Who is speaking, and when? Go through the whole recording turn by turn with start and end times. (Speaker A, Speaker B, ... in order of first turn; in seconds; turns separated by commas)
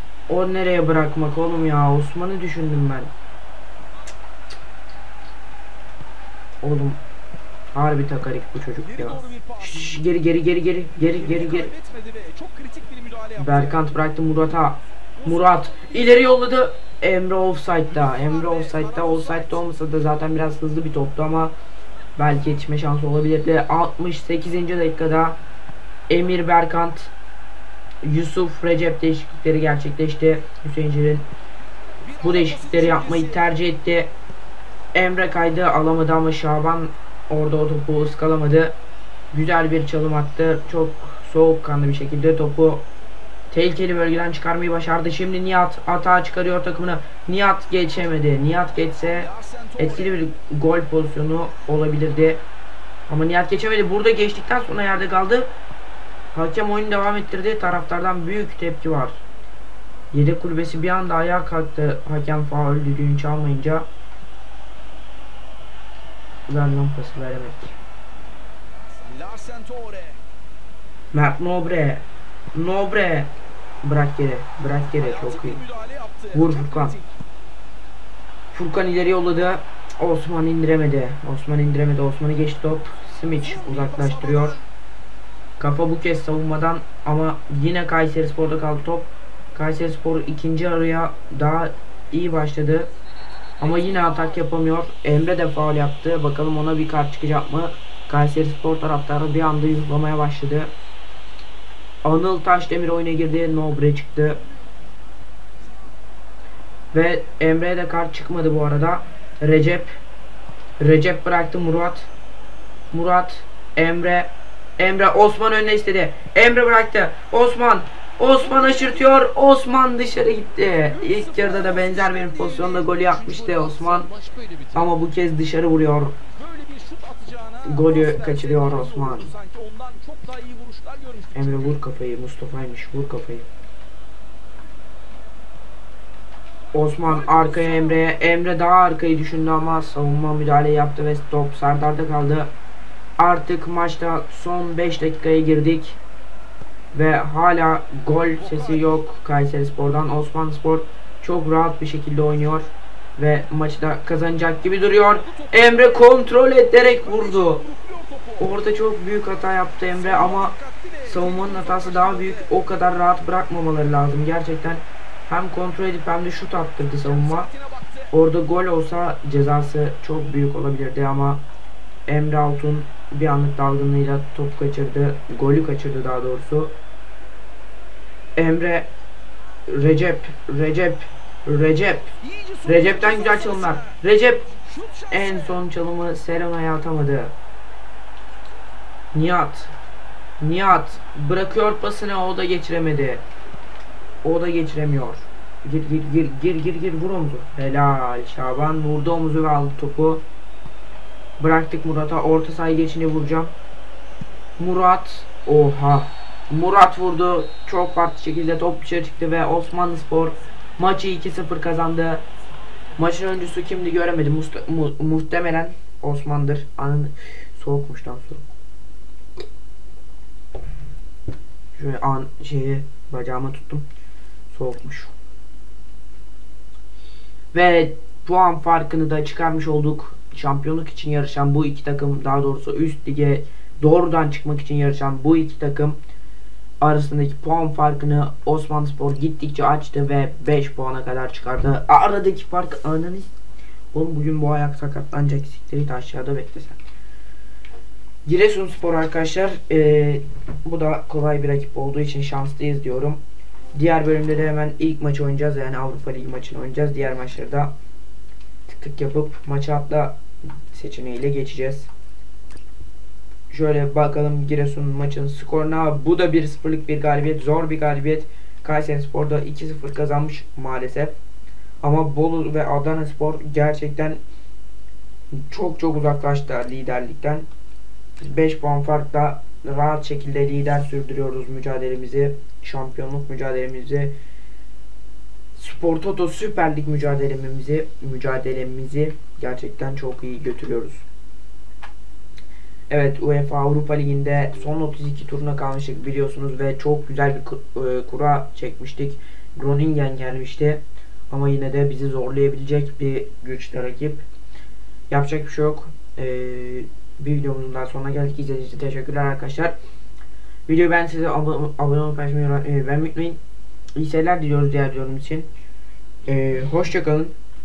Speaker A: 0.3-3.1, Speaker A: 6.6-7.0, Speaker A: 7.7-11.7, Speaker B: 8.8-9.8, Speaker B: 11.0-13.9, Speaker A: 13.4-21.5, Speaker B: 15.2-16.2, Speaker B: 18.0-19.7, Speaker A: 22.1-25.4, Speaker A: 26.1-27.1, Speaker A: 28.0-31.3, Speaker B: 32.0-33.5, Speaker A: 32.2-34.1, Speaker A: 34.9-38.8, Speaker A: 39.3-42.9, Speaker A: 43.5-52.4, Speaker B: 49.1-50.1, Speaker A: 53.1-55.5, Speaker A: 56.3-59.2, Speaker A: 60.1-63.9, Speaker A: 66.5-67.8, Speaker B: 69.0-70.2, Speaker A: 71.1-75.6, Speaker B: 75.0-77.0, Speaker A: 76.3-77.0, Speaker A: 78.5-84.6, Speaker B: 83.4-84.6, Speaker A: 85.6-92.9, Speaker A: 93.6-100.7, Speaker B: 93.6-94.4, Speaker A: 102.0-104.4, Speaker A: 106.9-109.9, Speaker A: 110.8-112.1, Speaker A: 112.9-124.1, Speaker B: 118.4-119.0, Speaker B: 120.9-123.8, Speaker A: 124.7-126.2, Speaker B: 126.4-131.8, Speaker A: 127.7-129.3, Speaker A: 131.3-133.5, Speaker A: 136.7-142.5, Speaker B: 137.0-138.0, Speaker A: 143.2-146.0, Speaker A: 146.9-157.6, Speaker B: 148.4-148.9, Speaker B: 155.3-156.1, Speaker B: 156.8-158.5, Speaker A: 158.4-167.5, Speaker B: 159.9-162.6, Speaker B: 167.0-168.1, Speaker A: 168.1-171.4, Speaker A: 172.1-176.7, Speaker A: 178.3-178.9, Speaker A: 179.7-184.5, Speaker B: 182.2-184.0, Speaker B: 184.7-185.6, Speaker A: 185.1-187.3, Speaker A: 189.1-189.7, Speaker A: 190.4-193.2, Speaker A: 194.2-200.2, Speaker A: 201.4-203.5, Speaker A: 204.6-212.2, Speaker A: 213.0-218.4, Speaker A: 221.8-223.9, Speaker A: 224.5-225.1, Speaker A: 227.5-236.0, Speaker A: 236.8-243.3, Speaker A: 243.9-246.8, Speaker A: 248.2-253.2, Speaker A: 253.7-257.7, Speaker A: 258.7-261.9, Speaker A: 263.5-271.1, Speaker A: 271.8-274.2, Speaker A: 275.3-277.5, Speaker A: 278.2-284.1, Speaker A: 285.5-291.0, Speaker A: 292.9-304.2, Speaker A: 305.1-309.8, Speaker A: 310.7-313.4, Speaker A: 313.9-315.5, Speaker A: 316.2-317.3